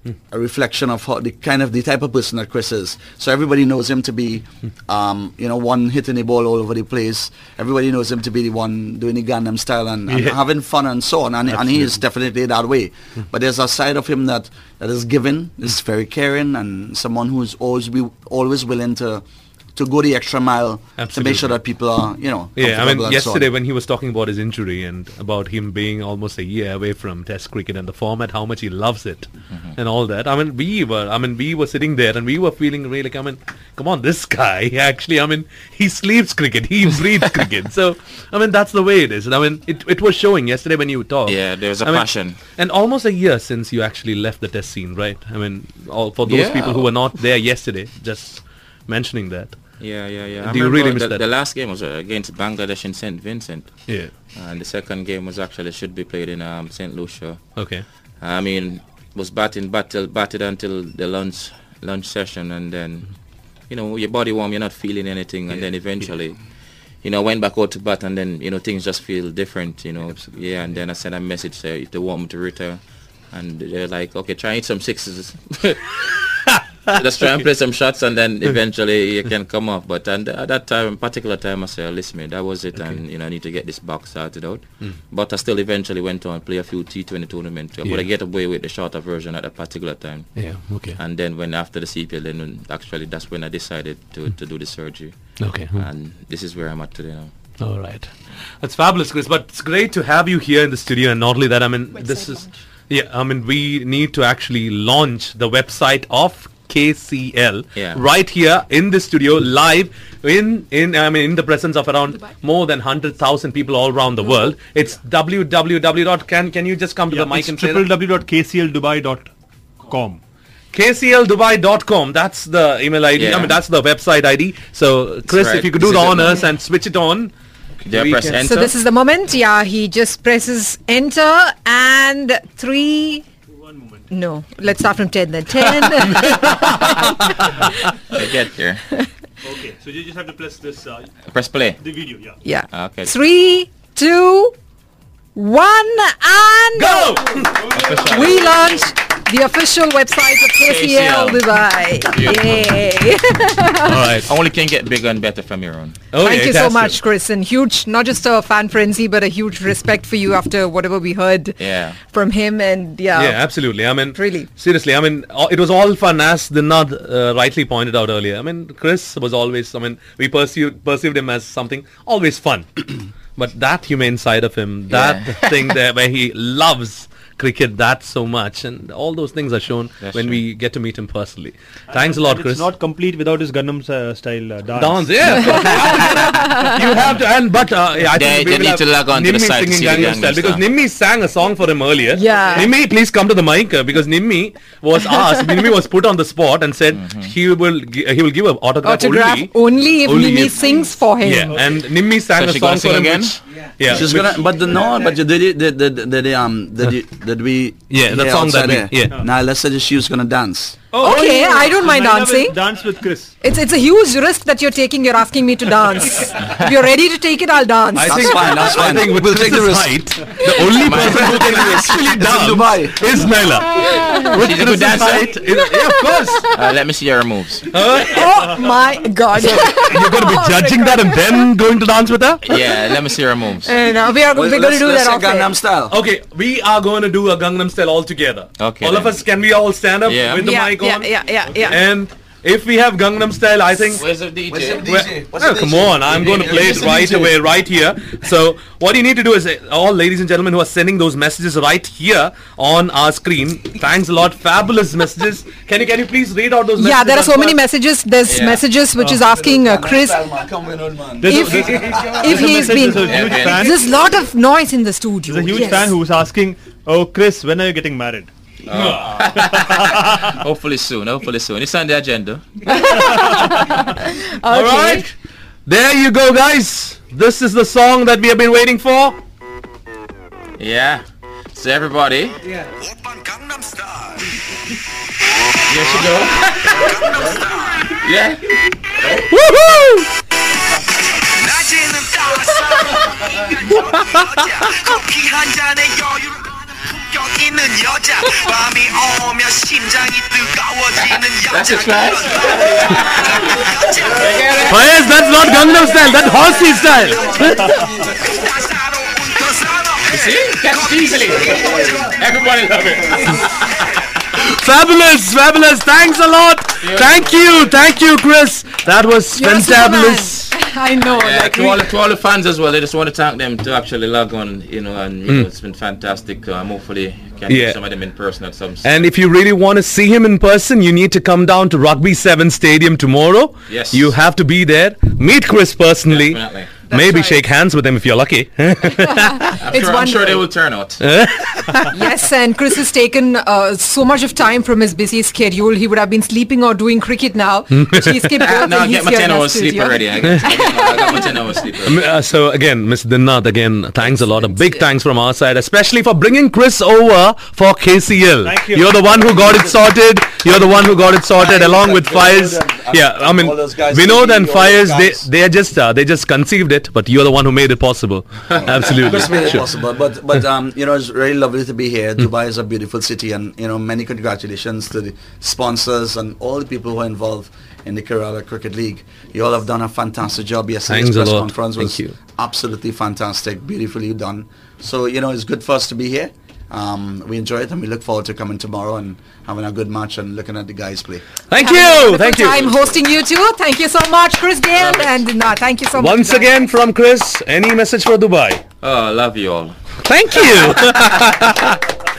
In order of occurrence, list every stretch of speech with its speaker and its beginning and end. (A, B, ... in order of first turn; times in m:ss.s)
0:00.3-0:19.2 A
0:10.1-0:10.4 B
0:11.5-0:11.8 B
0:19.7-0:23.5 A
0:21.0-0:21.6 B
0:22.6-0:49.6 B
0:41.2-0:42.4 C
0:46.2-0:46.9 C
0:49.8-1:16.1 C
0:50.4-0:51.2 B
0:53.9-0:54.1 B
0:57.5-0:57.8 B
1:05.5-1:06.1 B
1:10.1-1:10.4 B
1:16.5-1:17.0 B
1:16.9-1:37.5 C
1:30.3-1:31.0 B
1:35.4-1:35.8 B
1:37.6-1:57.9 B
1:41.9-1:42.6 D
1:47.8-1:48.0 C
1:57.1-1:59.3 E
1:59.8-2:00.2 E
2:00.7-2:07.3 B
2:03.2-2:03.6 C
2:05.3-2:06.5 C
2:07.8-2:08.7 C
2:07.9-2:08.4 B
2:08.4-2:13.2 D
2:13.5-2:14.0 E
2:14.1-2:17.6 D
2:18.1-2:18.8 C
2:19.4-2:21.1 E
2:21.3-2:21.9 C
2:21.8-2:22.4 E
2:22.4-2:24.6 D
2:22.7-2:23.1 C
2:25.3-2:34.0 D
2:26.8-2:27.8 B
2:27.7-2:28.7 C
2:30.6-2:31.4 C
2:32.1-2:32.8 C
2:33.9-2:34.3 B
2:34.2-2:36.0 C
2:36.1-2:37.0 B
2:36.2-2:41.6 D
2:41.6-2:42.0 C
2:42.1-2:44.5 D
2:43.1-3:02.7 B
2:54.9-2:55.5 C
3:00.0-3:00.4 C
3:01.9-3:06.0 E
3:04.8-3:24.5 B
3:05.4-3:06.7 D
3:08.1-3:10.6 C
3:12.2-3:12.7 D
3:12.3-3:12.7 E
3:16.9-3:17.3 C
3:18.8-3:21.6 D
3:21.5-3:21.8 E
3:22.3-3:23.4 C
3:23.8-3:30.8 A
3:27.9-3:29.2 B
3:30.9-3:33.3 E
3:31.0-3:32.8 D
3:33.4-3:38.7 D
3:38.0-3:46.5 B
3:38.1-3:40.5 A
3:40.8-3:42.0 C
3:41.0-3:43.0 A
3:43.9-3:44.3 D
3:44.3-3:45.4 C
3:45.5-3:46.4 D
3:46.5-3:47.7 C
3:47.7-3:48.5 B
3:48.0-3:51.5 D
3:49.3-3:52.7 B
3:52.4-3:53.7 C
3:53.6-3:55.5 D
3:54.3-3:56.0 A
3:55.9-4:04.0 B
3:58.6-3:59.2 C
4:00.0-4:00.5 C
4:00.4-4:01.8 D
4:03.9-4:04.9 C
4:04.5-4:07.4 A
4:04.8-4:17.6 B
4:16.8-4:20.2 D
4:18.2-4:18.6 C
4:19.1-4:23.2 A
4:21.2-4:23.9 E
4:21.2-4:25.9 D
4:23.0-4:23.8 C
4:25.3-4:28.3 E
4:28.6-4:32.7 C
4:28.7-4:29.3 B
4:32.7-4:35.1 D
4:34.5-4:35.1 B
4:35.6-4:39.2 B
4:40.6-4:42.4 C
4:42.6-4:44.6 F
4:45.2-4:46.0 F
4:45.7-4:47.4 C
4:46.7-4:48.0 F
4:47.9-4:49.3 C
4:49.3-4:50.1 B
4:51.0-5:04.6 F
5:01.0-5:05.0 C
5:04.6-5:07.8 B
5:08.0-5:12.2 F
5:10.1-5:13.7 C
5:14.3-5:20.5 B
5:16.8-5:17.7 C
5:19.3-5:21.9 D
5:21.1-5:29.1 C
5:27.5-5:27.8 B
5:28.8-5:39.6 B
5:33.7-5:34.1 C
5:36.1-5:36.8 C
5:36.9-5:37.4 D
5:39.0-5:40.4 D
5:39.6-5:41.0 C
5:41.0-5:41.9 B
5:41.9-5:51.3 D
5:47.8-5:48.2 B
5:48.4-5:52.0 C
5:51.8-6:09.7 B
5:58.4-5:59.7 E
5:59.2-5:59.8 A
6:00.4-6:05.3 A
6:08.5-6:31.3 A
6:20.9-6:22.2 B
6:31.5-6:32.6 B
6:31.6-6:36.8 D
6:32.6-6:33.0 C
6:35.9-6:38.6 B
6:38.8-6:41.3 C
6:40.0-6:41.8 B